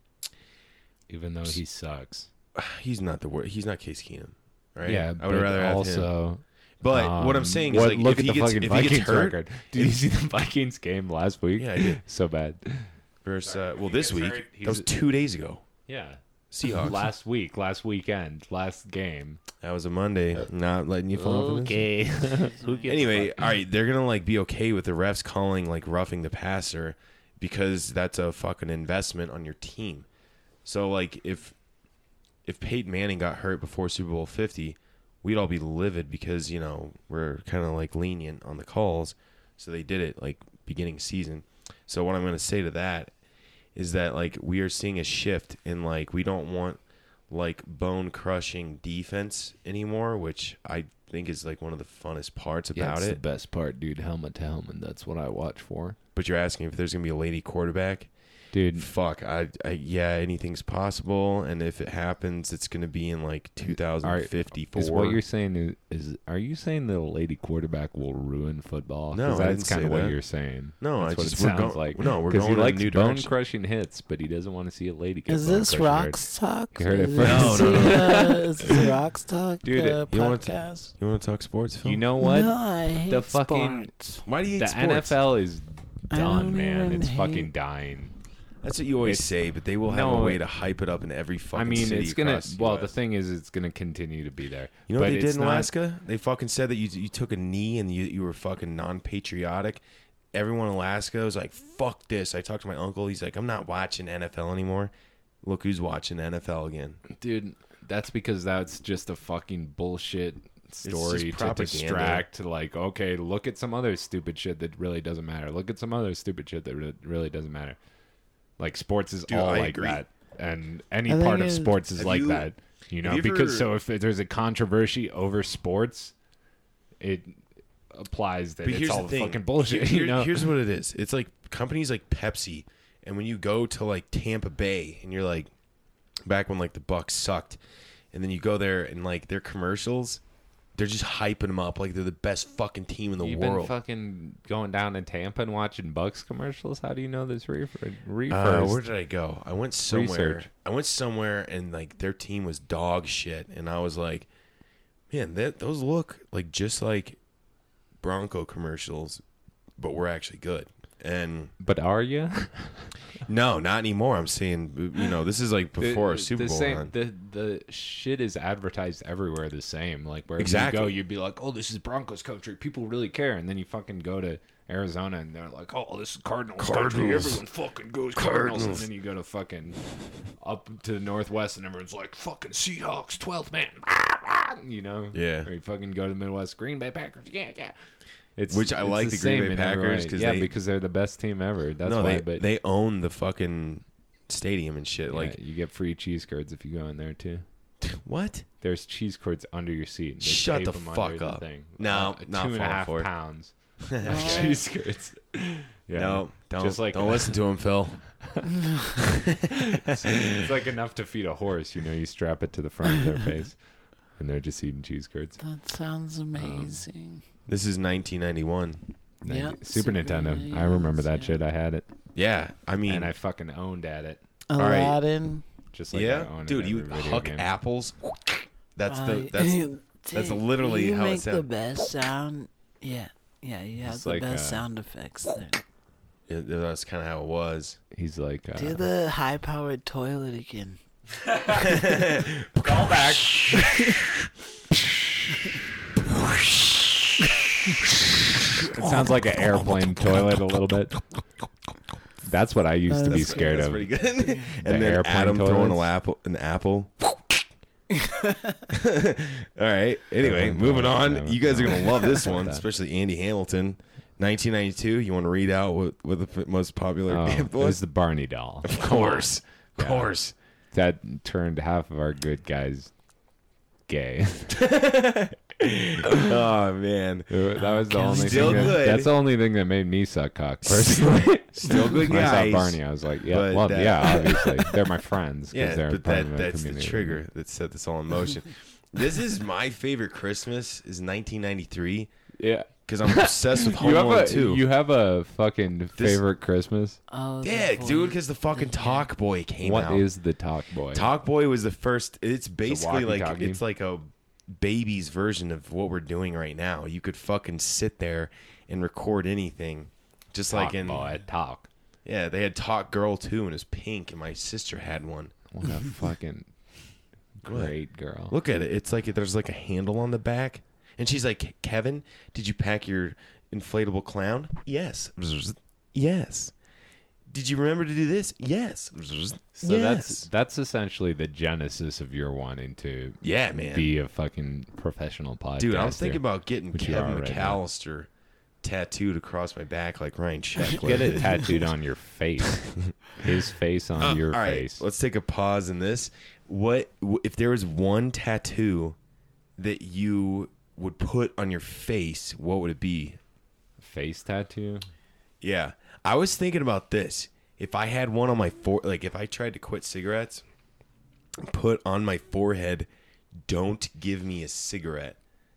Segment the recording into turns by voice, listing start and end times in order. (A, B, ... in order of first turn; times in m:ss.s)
0:01.1-0:02.3 A
0:02.6-0:06.1 B
0:04.8-0:12.9 A
0:06.8-0:10.0 B
0:11.6-0:12.0 B
0:13.2-0:15.6 B
0:13.4-0:14.9 A
0:15.9-0:19.4 A
0:16.5-0:17.0 B
0:19.6-0:21.9 B
0:21.1-0:23.6 A
0:22.3-0:22.9 C
0:22.8-0:30.1 B
0:30.6-0:31.6 B
0:32.5-0:43.1 B
0:43.8-0:53.2 B
0:52.8-0:56.0 A
0:56.2-0:58.1 B
0:58.5-0:58.9 A
0:58.7-1:05.2 B
1:04.0-1:16.2 A
1:09.1-1:10.2 B
1:10.8-1:13.3 B
1:15.3-1:20.9 C
1:16.7-1:18.9 A
1:17.2-1:18.2 B
1:19.6-1:20.0 A
1:20.1-1:22.0 B
1:21.8-1:24.1 A
1:22.2-1:24.2 C
1:24.3-1:25.2 B
1:24.6-1:28.2 A
1:26.1-1:27.5 C
1:28.6-1:32.9 B
1:29.0-1:29.3 A
1:29.8-1:30.4 A
1:31.6-1:35.7 A
1:34.9-1:47.0 B
1:47.1-1:57.8 A
1:50.8-1:52.2 B
1:58.6-2:06.1 A
1:59.3-2:00.0 B
2:01.1-2:01.7 C
2:02.0-2:02.5 B
2:03.0-2:03.7 B
2:07.0-2:10.5 A
2:08.6-2:15.5 B
2:16.3-2:17.6 B
2:18.1-2:20.2 B
2:20.8-2:23.7 B
2:23.2-2:28.8 A
2:28.3-2:34.3 B
2:29.9-2:30.5 A
2:35.1-2:37.2 B
2:38.0-2:39.2 B
2:39.8-2:41.5 B
2:41.6-2:43.0 A
2:43.3-2:46.9 B
2:45.8-3:07.7 A
2:50.4-2:51.0 B
2:56.6-2:57.4 B
2:58.2-2:58.9 B
3:05.1-3:05.5 B
3:08.4-3:12.4 A
3:08.5-3:10.6 B
3:11.8-3:15.4 B
3:15.1-3:17.4 A
3:17.8-3:18.5 B
3:18.6-3:27.4 A
3:20.2-3:23.1 B
3:23.9-3:24.6 B
3:24.0-3:24.6 C
3:25.9-3:28.1 B
3:29.2-3:30.5 B
3:29.7-3:33.6 A
3:34.2-3:35.4 A
3:35.4-3:37.2 C
3:36.4-3:36.8 A
3:37.5-3:38.9 B
3:39.2-3:41.9 A
3:39.2-3:41.4 C
3:42.2-3:43.1 B
3:42.9-3:44.2 A
3:44.5-3:45.4 C
3:44.6-3:45.0 B
3:45.7-3:47.5 A
3:45.9-3:48.2 B
3:48.8-3:51.5 B
3:48.9-3:55.6 C
3:53.8-3:54.6 A
3:56.3-3:57.8 B
3:57.9-3:58.8 A
3:58.6-4:00.8 C
4:01.3-4:01.9 A
4:01.6-4:03.6 B
4:02.6-4:04.1 A
4:03.6-4:04.0 C
4:08.6-4:11.0 A
4:08.7-4:09.1 B
4:12.2-4:13.9 A
4:12.9-4:13.6 C
4:13.1-4:17.4 B
4:14.2-4:14.5 C
4:14.6-4:15.9 A
4:17.9-4:18.6 C
4:18.7-4:27.8 B
4:20.2-4:22.6 A
4:27.1-4:30.1 A
4:28.6-4:30.3 B
4:30.7-4:32.9 A
4:33.9-4:34.6 A
4:34.5-4:37.3 B
4:37.3-4:47.2 A
4:37.6-4:38.8 C
4:38.0-4:39.1 B
4:40.6-4:44.7 B
4:45.5-4:52.1 B
4:52.4-4:57.0 A
4:52.9-4:54.6 B
4:56.0-4:56.2 B
4:57.1-4:59.1 C
4:57.4-5:00.1 B
4:59.6-5:01.1 A
5:00.9-5:11.1 B
5:02.6-5:03.6 A
5:10.5-5:11.7 A
5:12.0-5:15.4 B
5:15.5-5:16.6 A
5:17.4-5:18.4 A
5:17.4-5:17.8 B
5:18.3-5:26.5 B
5:27.3-5:30.3 B
5:29.6-5:37.6 A
5:33.2-5:33.9 B
5:35.6-5:38.1 B
5:38.6-5:41.7 B
5:40.6-5:44.8 A
5:44.0-5:49.0 B
5:49.6-5:53.2 B
5:53.8-5:54.9 A
5:55.4-6:00.4 B
6:01.4-6:02.9 B
6:03.4-6:05.2 B